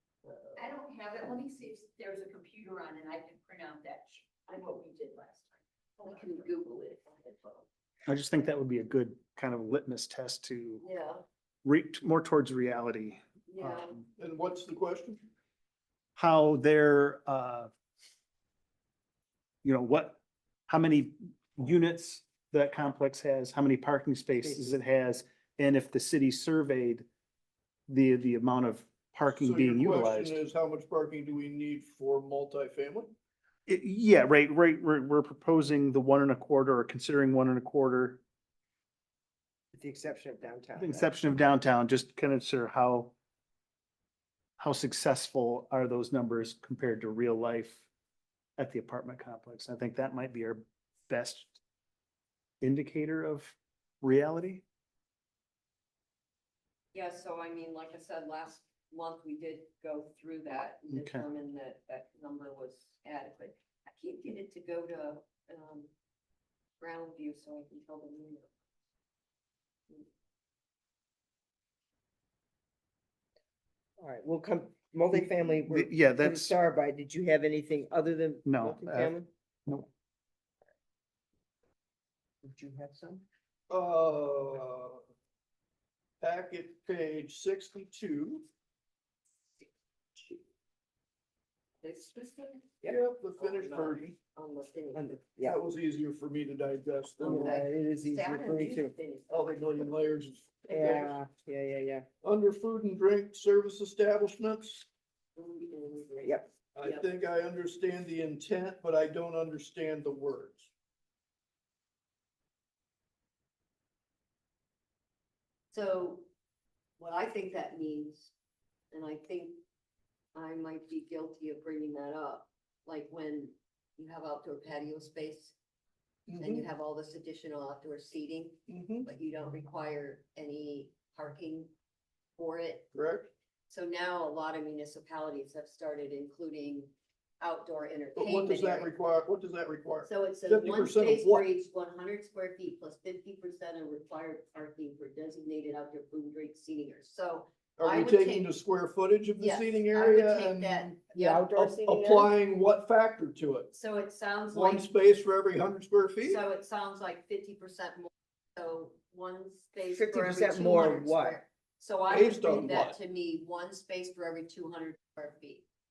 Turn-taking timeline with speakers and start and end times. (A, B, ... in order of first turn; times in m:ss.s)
0:00.5-0:06.4 A
0:06.0-0:07.6 B
0:08.1-0:10.8 C
0:10.8-0:11.2 B
0:11.6-0:14.1 C
0:13.5-0:14.0 B
0:14.2-0:15.2 D
0:16.2-0:17.7 C
0:19.6-0:27.1 C
0:24.4-0:24.8 E
0:27.9-0:30.4 C
0:29.3-0:33.1 D
0:33.7-0:38.2 C
0:39.7-0:41.1 E
0:40.8-0:43.1 C
0:44.6-0:47.9 C
0:48.6-0:51.6 C
0:52.6-0:54.6 C
0:56.9-1:05.9 B
1:00.9-1:01.2 C
1:06.8-1:08.6 B
1:14.0-1:19.3 E
1:15.1-1:16.5 C
1:18.4-1:19.1 C
1:22.4-1:23.2 E
1:23.7-1:25.0 D
1:26.2-1:28.4 D
1:31.8-1:32.8 B
1:32.8-1:34.2 D
1:33.4-1:35.2 B
1:34.9-1:35.6 E
1:35.4-1:37.5 D
1:37.2-1:39.6 B
1:37.2-1:38.9 E
1:39.3-1:41.2 D
1:40.7-1:42.0 E
1:42.2-1:44.9 D
1:45.4-1:47.1 B
1:46.7-1:50.7 D
1:55.7-1:56.3 B
1:57.0-1:58.3 B
1:58.9-1:59.6 B
2:00.3-2:05.5 B
2:06.3-2:06.7 D
2:06.4-2:11.7 B
2:08.7-2:09.1 D
2:12.4-2:12.9 B
2:12.9-2:13.3 D
2:13.7-2:18.9 B
2:18.2-2:21.5 D
2:20.0-2:28.5 B
2:27.8-2:33.7 D
2:29.4-2:31.5 B
2:31.1-2:32.3 E
2:33.7-2:34.9 B
2:34.5-2:36.4 D
2:36.2-2:45.6 B
2:39.9-2:41.4 E
2:42.1-2:43.0 D